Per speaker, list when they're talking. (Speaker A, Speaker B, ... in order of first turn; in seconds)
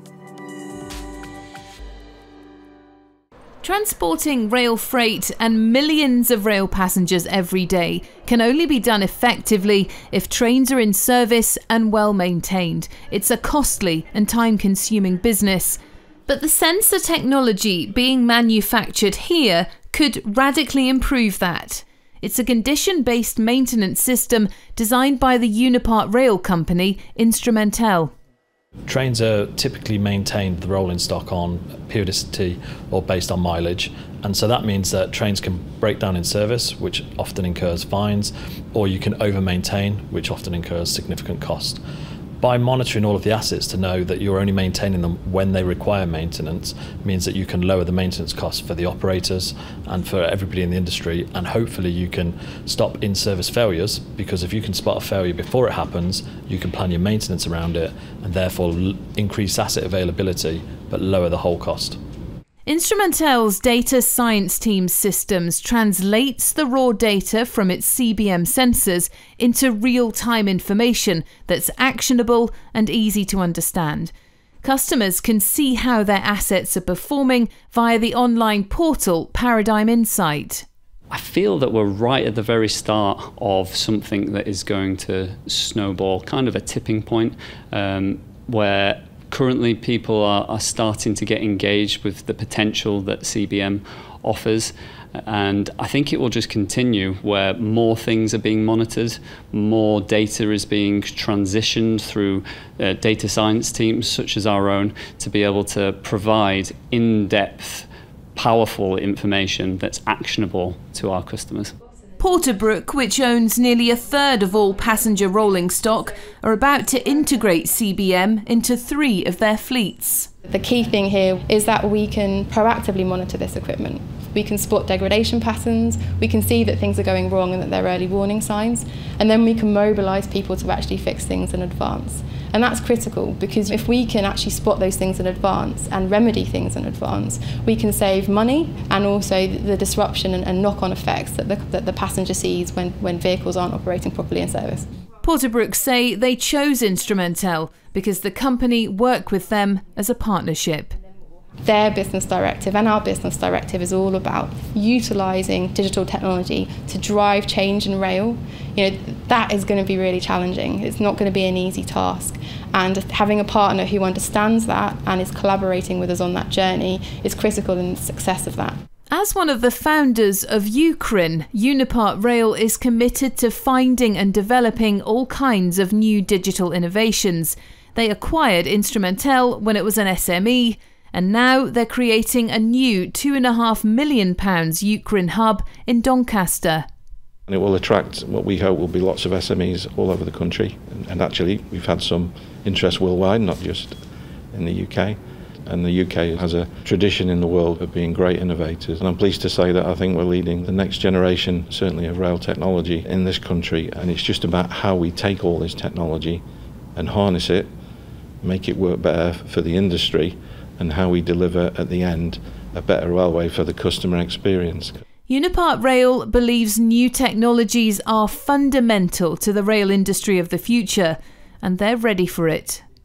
Speaker A: 3.6-28.1, 62.6-80.7, 112.2-120.3, 145.2-150.9, 169.1-186.9, 215.3-222.8
Speaker B: 28.9-41.8, 42.4-62.0
Speaker C: 81.1-111.7
Speaker D: 120.5-144.9, 151.6-168.8
Speaker E: 187.5-194.0, 194.5-206.4, 207.0-207.7, 208.4-215.0